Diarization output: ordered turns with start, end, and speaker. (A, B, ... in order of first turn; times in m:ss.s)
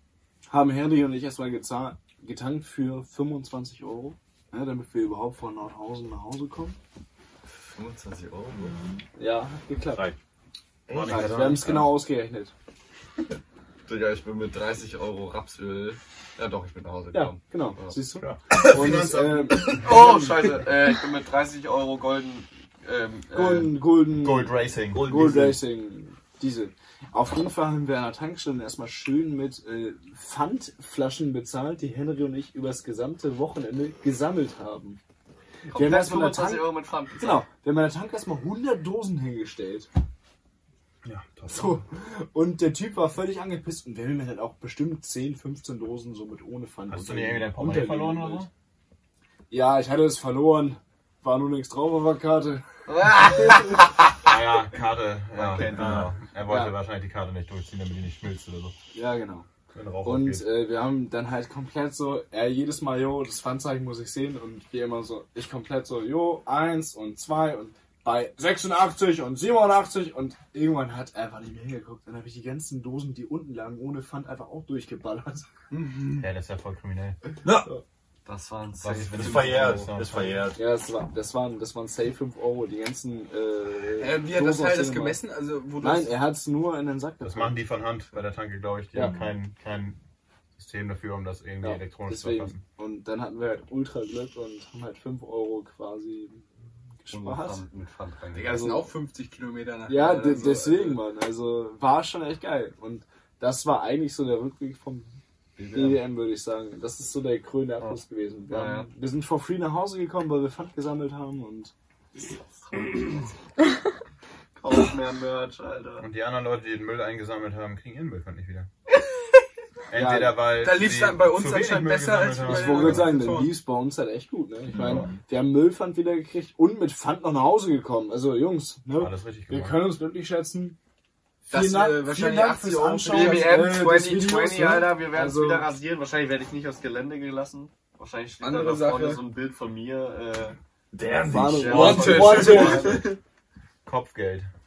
0:00.5-0:06.8 A
0:07.6-0:08.8 B
0:08.6-0:09.0 C
0:09.2-0:10.1 A
0:09.9-0:10.2 C
0:10.9-0:11.8 B
0:10.9-0:11.9 D
0:11.0-0:12.5 A
0:13.9-0:18.0 B
0:17.1-0:20.6 A
0:18.2-0:18.8 C
0:18.6-0:19.8 D
0:19.6-0:23.8 B
0:23.3-0:35.0 A
0:24.1-0:25.1 D
0:24.9-0:25.6 C
0:35.7-0:39.9 A
0:35.7-0:37.4 B
0:41.0-0:41.8 D
0:41.5-0:48.5 A
0:46.9-0:48.5 D
0:49.5-0:52.6 A
0:52.9-0:54.3 B
0:53.2-0:53.6 A
0:54.2-0:58.8 D
0:55.4-0:56.2 B
0:55.7-0:56.1 C
0:56.5-0:56.8 A
0:58.9-0:59.5 A
0:59.7-1:00.5 D
1:00.0-1:15.5 A
1:15.7-1:16.2 E
1:16.2-1:17.2 D
1:17.4-1:17.7 C
1:18.2-1:20.1 B
1:18.9-1:20.6 C
1:19.3-1:20.5 D
1:20.6-1:25.2 A
1:24.0-1:26.1 E
1:25.8-1:27.6 A
1:27.2-1:30.0 D
1:28.9-1:29.4 C
1:30.6-1:32.6 D
1:31.6-1:36.5 A
1:37.0-1:37.6 A
1:37.1-1:38.8 B
1:38.3-1:41.0 E
1:38.4-1:38.9 A
1:39.9-1:45.2 A
1:45.6-1:46.0 B
1:45.7-1:51.7 A
1:47.8-1:48.9 B
1:52.2-1:53.4 B
1:54.6-1:56.1 B
1:56.0-1:58.7 D
1:59.9-2:03.2 D
1:59.9-2:00.4 A
2:00.6-2:03.5 E
2:02.4-2:10.8 A
2:04.7-2:05.2 C
2:09.0-2:09.8 D
2:11.5-2:13.8 E
2:11.5-2:15.7 A
2:13.1-2:20.6 B
2:18.4-2:19.2 E
2:20.9-2:22.9 C
2:21.2-2:23.1 A
2:21.3-2:23.1 B
2:22.1-2:23.1 E
2:23.8-2:24.5 D